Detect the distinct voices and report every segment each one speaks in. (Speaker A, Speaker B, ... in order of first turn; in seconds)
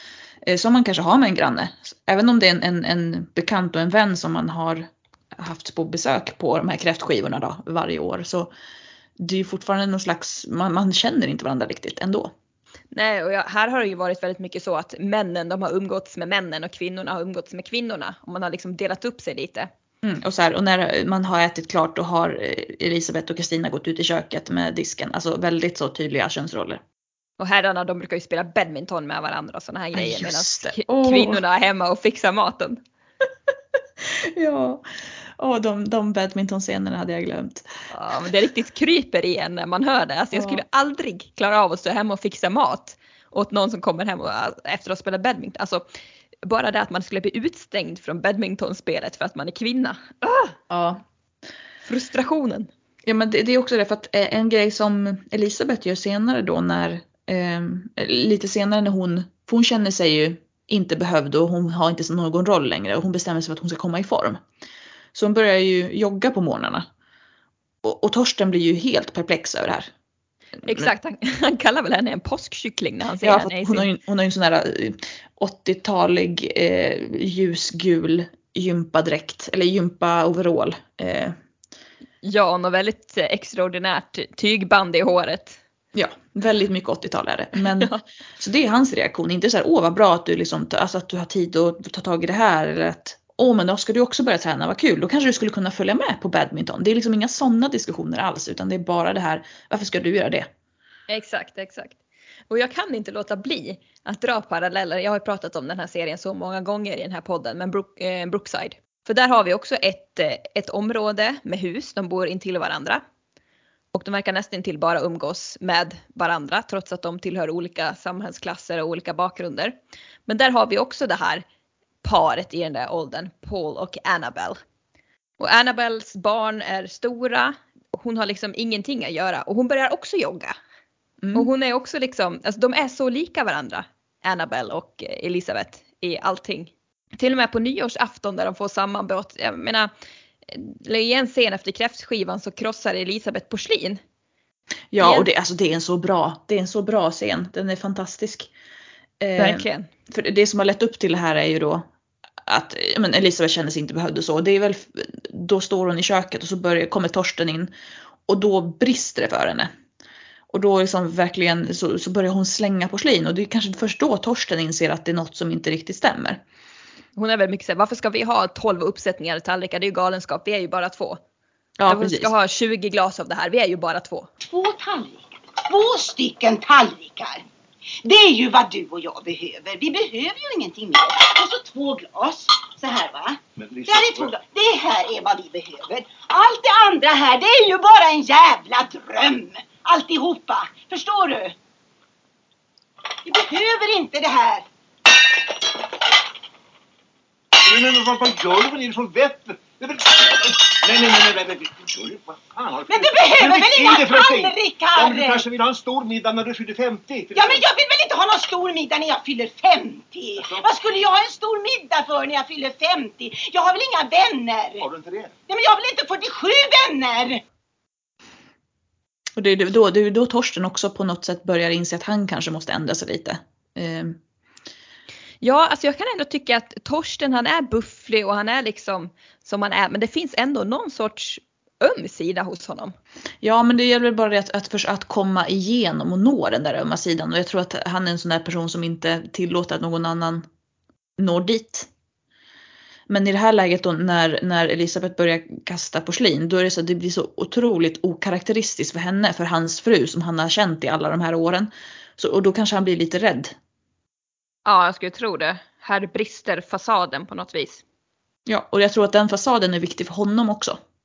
Speaker A: 0.5-8.5, 9.2-12.3, 20.0-26.8, 29.9-31.4, 34.0-37.7, 40.3-40.6, 50.7-51.0, 53.0-64.4, 65.1-66.9, 67.8-69.9, 73.2-81.4, 85.9-100.5, 131.2-131.5, 144.9-148.5, 149.2-151.8, 152.5-157.7, 158.3-159.7, 160.5-166.4, 171.8-172.3, 219.4-224.2, 233.4-240.5, 241.2-241.9, 243.1-253.6, 258.5-260.8
Speaker B: 12.9-19.7, 27.4-32.8, 37.9-45.9, 46.4-50.5, 51.9-52.7, 70.7-73.9, 82.2-85.6, 87.7-88.0, 101.1-102.0, 102.5-113.0, 113.9-119.8, 120.3-121.5, 122.0-124.6, 125.4-130.5, 131.3-139.9, 140.5-144.0, 145.0-145.3, 149.4-149.9, 167.2-171.2, 171.9-174.3, 225.4-232.9, 254.7-257.8
Speaker C: 174.4-177.5, 178.0-191.6, 193.2-194.7, 202.9-205.4, 207.3-214.8, 215.5-217.4
Speaker D: 183.6-184.3, 197.6-207.7, 214.8-215.4